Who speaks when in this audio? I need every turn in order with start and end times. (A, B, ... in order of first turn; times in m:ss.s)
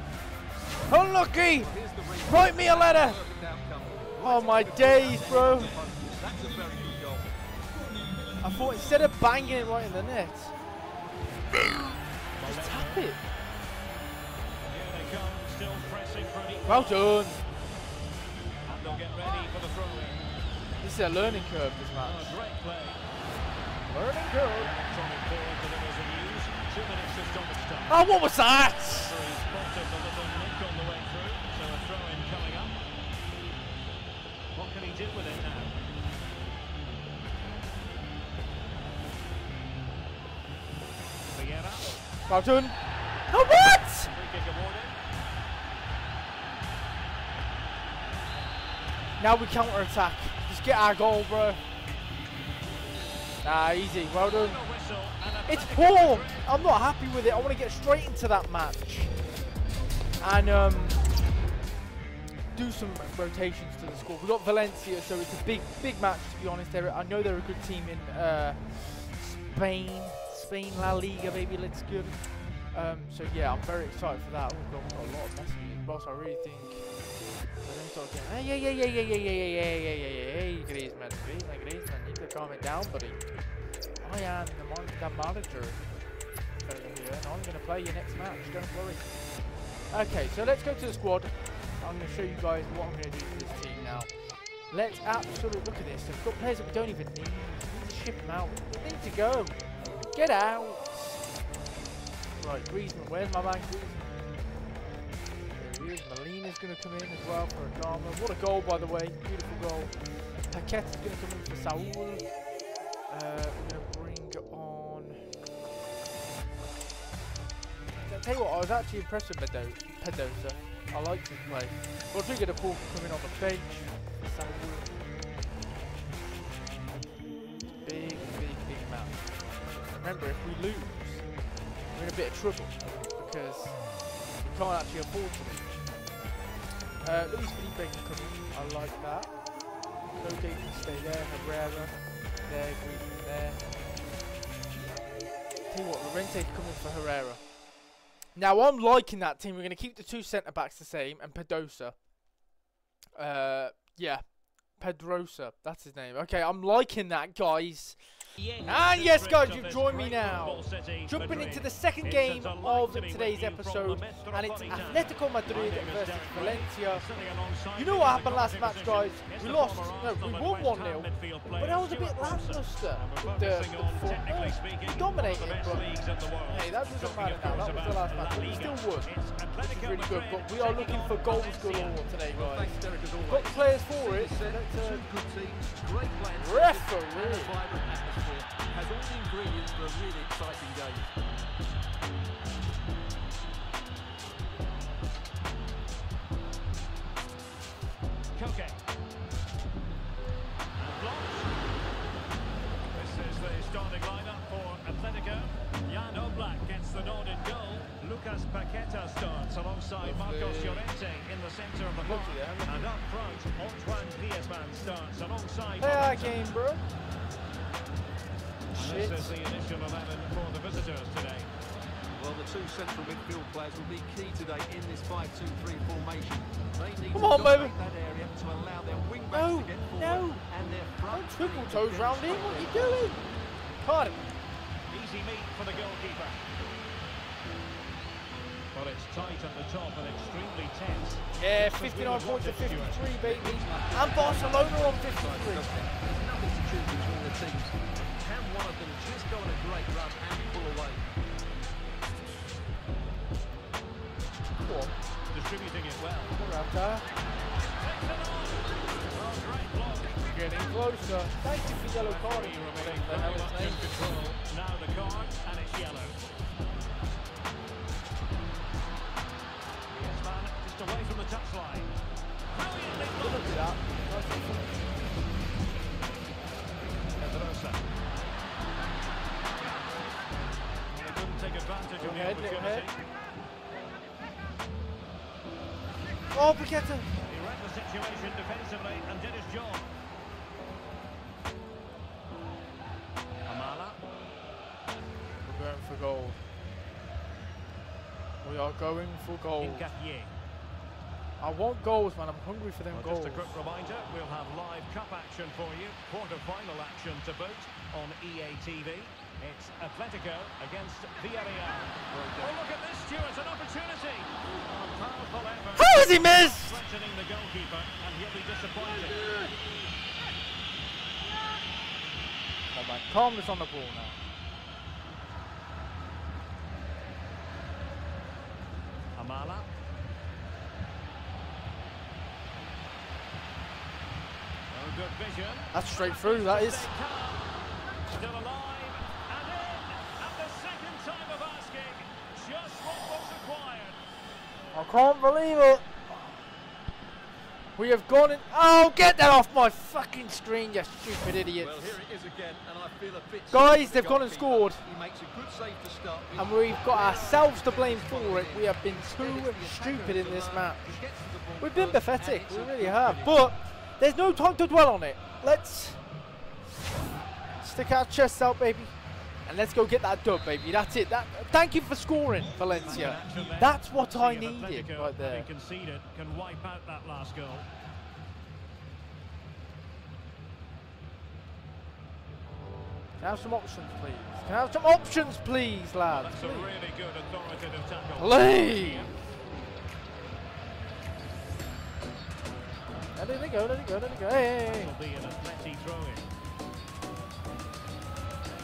0:00.9-0:03.2 A
0:01.6-0:07.3 B
0:04.2-0:05.8 A
0:08.4-0:10.5 A
0:12.4-0:13.1 C
0:12.4-0:13.2 A
0:14.6-0:17.0 C
0:16.6-0:17.4 A
0:18.6-0:20.2 C
0:20.8-0:22.4 A
0:22.0-0:23.0 C
0:23.9-0:24.8 A
0:24.5-0:28.1 C
0:27.9-0:29.2 A
0:28.7-0:32.8 C
0:34.5-0:35.8 C
0:41.3-0:42.0 C
0:42.2-0:42.8 A
0:43.3-0:44.1 A
0:44.1-0:45.0 C
0:49.2-0:51.6 A
0:53.4-0:54.6 A
0:54.2-0:56.5 C
0:55.5-0:59.1 A
1:00.2-1:01.0 A
1:02.5-1:17.0 A
1:17.6-1:23.4 A
1:24.0-1:25.9 A
1:26.6-1:34.2 A
1:34.7-1:39.6 A
1:40.1-1:41.2 A
1:42.4-1:44.1 A
1:45.5-1:50.0 A
1:50.5-1:52.3 A
1:53.1-1:55.3 A
1:58.0-2:05.0 A
2:07.8-2:09.3 A
2:09.9-2:11.3 A
2:11.9-2:15.8 A
2:17.0-2:19.5 A
2:20.0-2:23.6 A
2:25.7-2:27.4 A
2:28.4-2:32.0 A
2:33.2-2:47.2 A
2:38.4-3:02.1 C
2:47.7-3:05.1 A
3:02.3-3:11.1 B
3:06.3-3:07.6 A
3:18.4-3:18.8 C
3:20.8-3:21.6 C
3:22.9-3:36.4 C
3:30.0-3:30.9 A
3:32.0-3:32.8 A
3:35.8-3:36.8 A
3:38.7-3:39.4 A
3:38.8-3:41.5 C
3:42.2-3:53.1 B
3:47.1-3:47.8 A
3:49.3-3:50.4 A
3:51.1-3:53.2 A
3:53.8-3:54.2 A
3:54.9-3:56.5 C
3:58.7-4:03.1 C
4:01.4-4:05.7 A
4:03.1-4:11.0 B
4:14.6-4:14.9 A
4:15.3-4:16.4 C
4:16.3-4:17.1 A
4:17.6-4:20.2 C
4:20.2-4:23.8 A
4:21.8-4:26.2 C
4:29.9-4:31.9 C
4:32.5-4:33.7 C
4:33.2-4:34.7 A
4:37.2-4:37.8 C
4:40.9-4:43.0 C
4:42.0-4:42.9 A
4:46.3-4:47.1 A
4:47.3-4:49.9 C
4:53.5-4:54.0 C
4:55.4-4:56.4 A
4:58.4-4:59.9 A
4:59.6-5:00.3 C
5:01.4-5:03.6 A
5:02.9-5:19.5 C
5:12.1-5:12.6 B
5:15.7-5:16.8 A
5:22.7-5:24.2 A
5:29.2-5:29.7 C
5:34.7-5:37.5 C
5:35.7-5:36.9 A
5:38.0-5:44.0 C
5:44.7-5:46.3 A
5:47.8-5:52.0 A
5:51.6-6:03.5 B
5:53.5-5:54.8 A
5:56.4-6:01.0 A
6:01.6-6:06.0 A
6:07.6-6:15.5 A
6:12.8-6:17.7 C
6:23.2-6:26.8 A
6:26.1-6:29.1 C
6:28.2-6:29.1 A
6:33.2-6:34.9 A
6:34.7-6:36.3 C